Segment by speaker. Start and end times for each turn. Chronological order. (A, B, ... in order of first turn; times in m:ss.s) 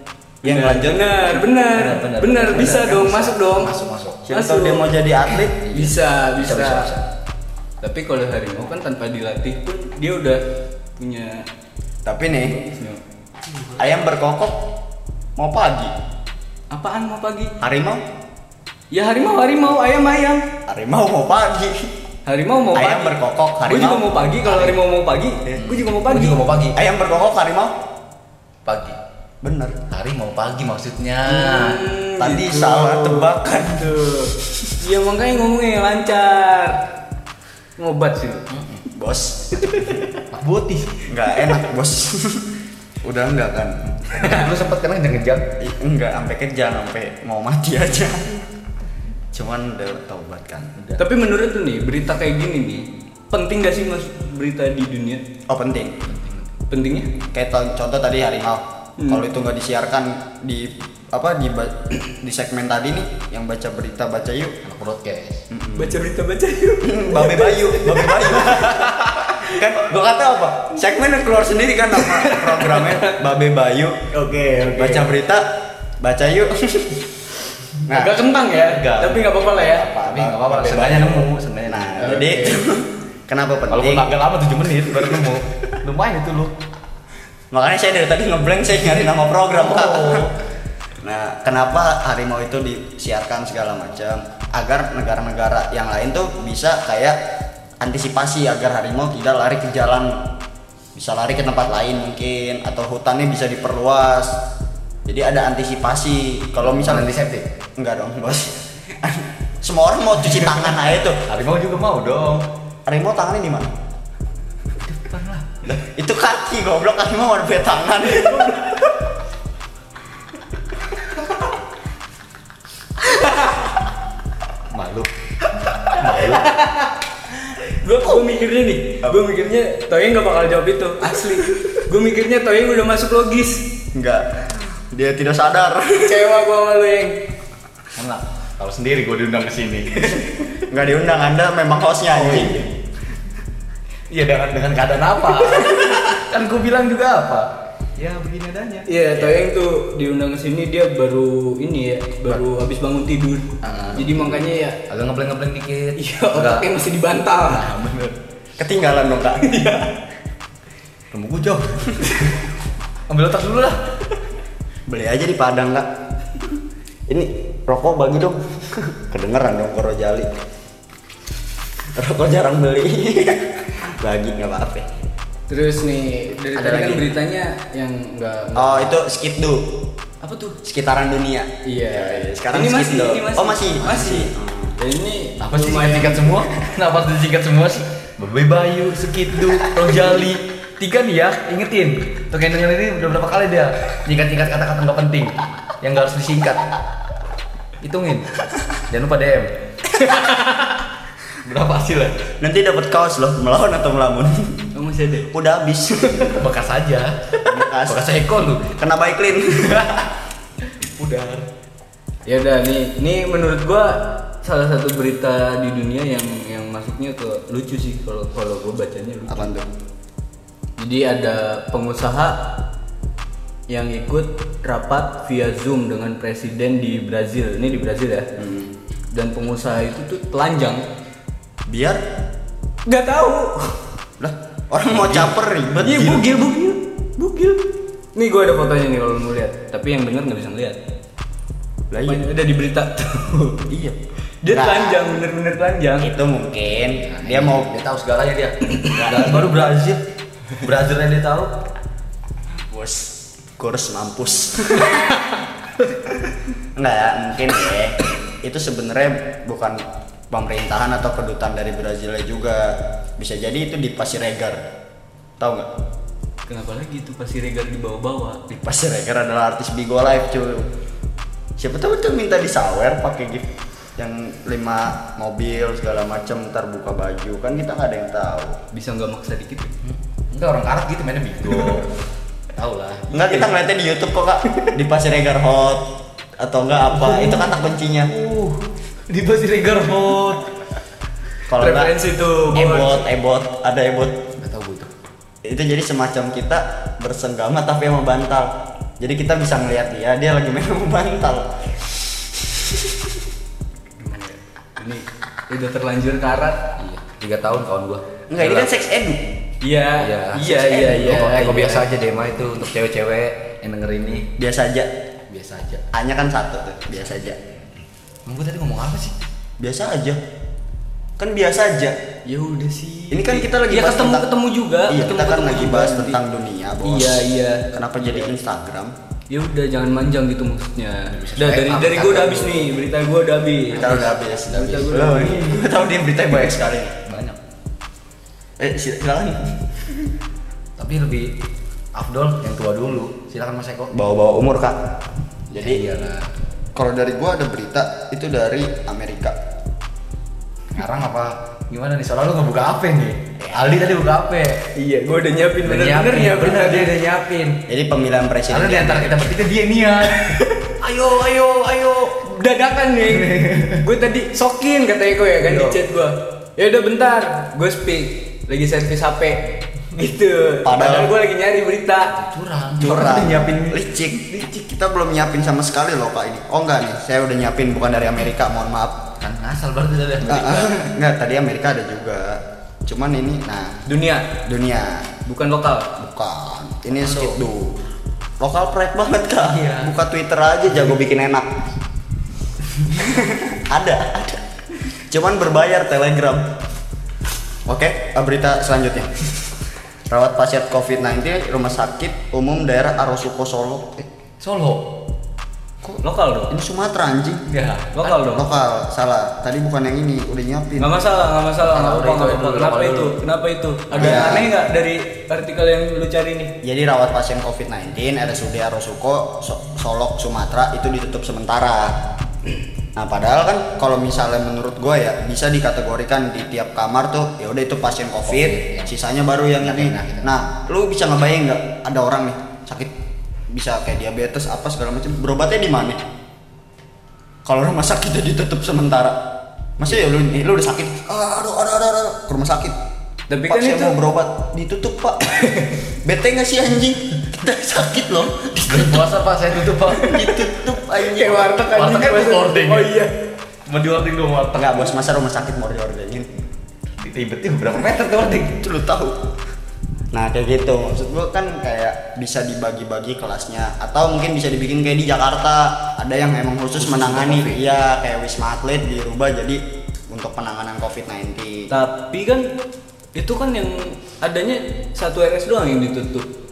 0:00.4-0:01.2 A
0:00.4-0:03.7 B
0:01.7-0:04.3 C
0:02.6-0:02.8 A
0:04.3-0:05.6 A
0:04.3-0:05.0 B
0:05.5-0:07.0 C
0:05.7-0:06.9 B
0:07.8-0:10.4 B
0:11.0-0:11.4 B
0:12.0-0:12.6 A
0:12.4-0:13.0 B
0:13.6-0:14.6 A
0:15.4-0:15.9 A
0:16.7-0:17.5 B
0:17.6-0:18.0 A
0:18.9-0:20.4 B
0:20.7-0:21.9 A
0:22.2-0:23.1 B
0:22.7-0:24.8 A
0:23.7-0:26.4 B
0:25.6-0:26.8 C
0:26.7-0:27.7 A
0:28.6-0:29.0 C
0:29.4-0:29.8 A
0:29.9-0:31.8 C
0:31.2-0:36.8 B
0:32.2-0:34.7 A
0:37.8-0:38.5 B
0:38.5-0:38.8 C
0:38.9-0:40.0 A
0:39.6-0:40.1 B
0:40.3-0:40.9 C
0:41.1-0:42.5 A
0:43.0-0:44.3 A
0:44.1-0:45.4 C
0:45.6-0:48.4 A
0:49.3-0:50.8 A
0:51.0-0:55.2 B
0:55.5-0:56.0 A
0:56.0-0:56.5 C
0:56.7-0:57.1 B
0:57.3-1:04.6 A
0:59.0-0:59.2 B
1:04.6-1:05.4 C
1:05.5-1:06.0 A
1:05.7-1:08.7 B
1:06.8-1:14.0 A
1:12.0-1:13.2 B
1:14.1-1:15.1 B
1:14.7-1:15.4 A
1:16.0-1:17.1 A
1:17.8-1:18.2 A
1:17.9-1:19.9 B
1:18.6-1:19.2 C
1:19.6-1:24.1 A
1:20.0-1:22.1 C
1:22.0-1:22.6 B
1:23.7-1:26.5 C
1:27.5-1:30.3 A
1:29.5-1:30.3 C
1:31.0-1:37.2 A
1:37.8-1:40.2 A
1:40.9-1:44.4 A
1:45.0-1:47.2 A
1:46.6-1:47.5 C
1:47.8-1:51.2 A
1:51.2-1:52.4 C
1:52.8-1:53.7 A
1:54.8-1:55.6 C
1:55.6-1:58.7 A
1:58.1-1:58.9 B
2:03.0-2:03.7 B
2:04.7-2:05.1 C
2:05.9-2:06.5 C
2:06.0-2:07.0 B
2:07.5-2:13.7 B
2:13.9-2:14.2 A
2:14.9-2:16.2 A
2:16.0-2:17.2 B
2:18.0-2:20.2 C
2:20.7-2:22.6 A
2:22.2-2:22.7 B
2:24.1-2:28.9 C
2:28.9-2:34.8 B
2:29.2-2:29.4 A
2:33.6-2:36.7 C
2:36.0-2:37.7 B
2:37.4-2:38.2 C
2:38.6-2:39.5 A
2:39.4-2:40.0 B
2:41.1-2:42.3 C
2:43.1-2:43.8 C
2:44.9-2:45.9 A
2:47.1-2:50.3 A
2:51.9-2:54.9 A
2:55.5-2:58.9 B
2:56.6-2:57.0 A
2:58.6-2:59.7 A
3:00.2-3:00.6 B
3:00.6-3:04.8 A
3:01.6-3:06.4 B
3:05.4-3:16.7 C
3:17.8-3:18.3 C
3:18.9-3:19.5 C
3:20.0-3:20.7 B
3:21.4-3:22.2 C
3:22.4-3:24.7 A
3:24.7-3:25.3 B
3:25.3-3:26.4 A
3:26.2-3:28.7 C
3:27.4-3:28.1 A
3:28.6-3:30.0 A
3:29.7-3:30.0 C
3:30.8-3:31.5 C
3:32.2-3:39.5 B
3:39.3-3:39.7 A
3:40.8-3:42.4 B
3:43.7-3:48.3 B
3:48.4-3:48.7 A
3:49.1-3:50.8 B
3:51.7-3:52.0 A
3:52.8-3:53.8 B
3:54.2-3:56.0 A
3:54.9-3:56.3 C
3:55.8-4:00.8 B
4:01.9-4:02.2 A
4:02.0-4:03.6 B
4:03.7-4:04.0 A
4:04.4-4:06.1 B
4:04.5-4:05.0 A
4:06.0-4:07.7 A
4:06.8-4:10.0 C
4:08.9-4:09.7 A
4:10.6-4:11.5 C
4:12.7-4:15.2 A
4:16.8-4:24.6 A
4:25.4-4:25.7 A
4:26.4-4:28.4 B
4:28.5-4:30.7 A
4:31.6-4:38.6 A
4:38.7-4:39.7 B
4:39.8-4:41.9 C
4:42.5-4:43.1 C
4:43.1-4:45.8 A
4:46.4-4:48.1 A
4:46.9-4:50.5 C
4:51.5-4:51.9 A
4:51.6-4:53.0 B
4:52.5-4:54.2 A
4:54.4-4:54.9 C
4:55.4-5:03.2 A
5:04.0-5:06.7 B
5:06.8-5:08.7 C
5:08.3-5:09.2 A
5:09.6-5:11.9 B
5:10.0-5:14.3 C
5:14.4-5:14.9 A
5:15.3-5:15.8 C
5:15.9-5:17.4 A
5:18.2-5:19.1 C
5:19.6-5:20.2 A
5:21.2-5:22.0 A
5:22.2-5:26.2 B
5:23.1-5:24.3 A
5:24.9-5:28.9 A
5:26.8-5:28.3 B
5:29.3-5:35.5 B
5:31.1-5:32.7 C
5:33.7-5:37.0 A
5:33.7-5:35.1 C
5:37.0-5:37.4 C
5:38.6-5:40.1 A
5:40.8-5:41.3 C
5:41.9-5:43.9 C
5:43.9-5:44.8 A
5:45.5-5:46.3 C
5:45.5-5:45.8 A
5:46.7-5:49.4 A
5:50.7-5:54.6 C
5:53.4-5:53.8 A
5:54.8-5:56.9 B
5:55.6-5:57.6 C
5:57.7-5:59.3 A
5:58.5-6:02.2 C
6:00.1-6:00.7 B
6:02.2-6:12.2 B
6:03.1-6:03.8 C
6:05.4-6:05.8 C
6:10.6-6:11.1 A
6:12.1-6:13.8 C
6:12.8-6:19.1 A
6:19.2-6:20.8 C
6:20.2-6:23.8 A
6:23.8-6:24.3 B
6:24.4-6:25.1 A
6:25.2-6:25.9 B
6:26.0-6:27.8 A
6:26.9-6:27.4 C
6:28.4-6:31.5 A
6:29.4-6:29.9 C
6:32.8-6:36.5 A
6:37.6-6:39.4 A
6:40.1-6:44.0 A
6:44.4-6:44.9 C
6:45.8-6:47.4 A
6:46.0-6:46.5 B
6:47.5-6:48.2 C
6:47.9-6:48.5 B
6:48.2-6:51.0 A
6:50.8-6:56.5 B
6:51.6-6:53.2 C
6:53.9-6:54.5 C
6:53.9-6:54.4 A
6:56.6-7:02.0 A
7:03.0-7:12.9 A
7:08.2-7:09.0 C
7:09.6-7:10.4 C
7:13.5-7:16.0 A
7:17.4-7:19.2 A
7:19.8-7:22.8 A
7:23.3-7:24.0 B
7:23.5-7:29.1 A
7:25.3-7:25.7 B
7:28.7-7:30.3 C
7:29.8-7:31.5 A
7:31.0-7:33.1 B
7:31.3-7:32.9 C
7:33.6-7:34.9 C
7:34.6-7:36.3 A
7:37.0-7:38.6 C
7:38.6-7:39.2 A
7:40.1-7:51.7 A
7:46.8-7:47.8 C
7:51.7-7:52.5 B
7:53.1-7:56.3 B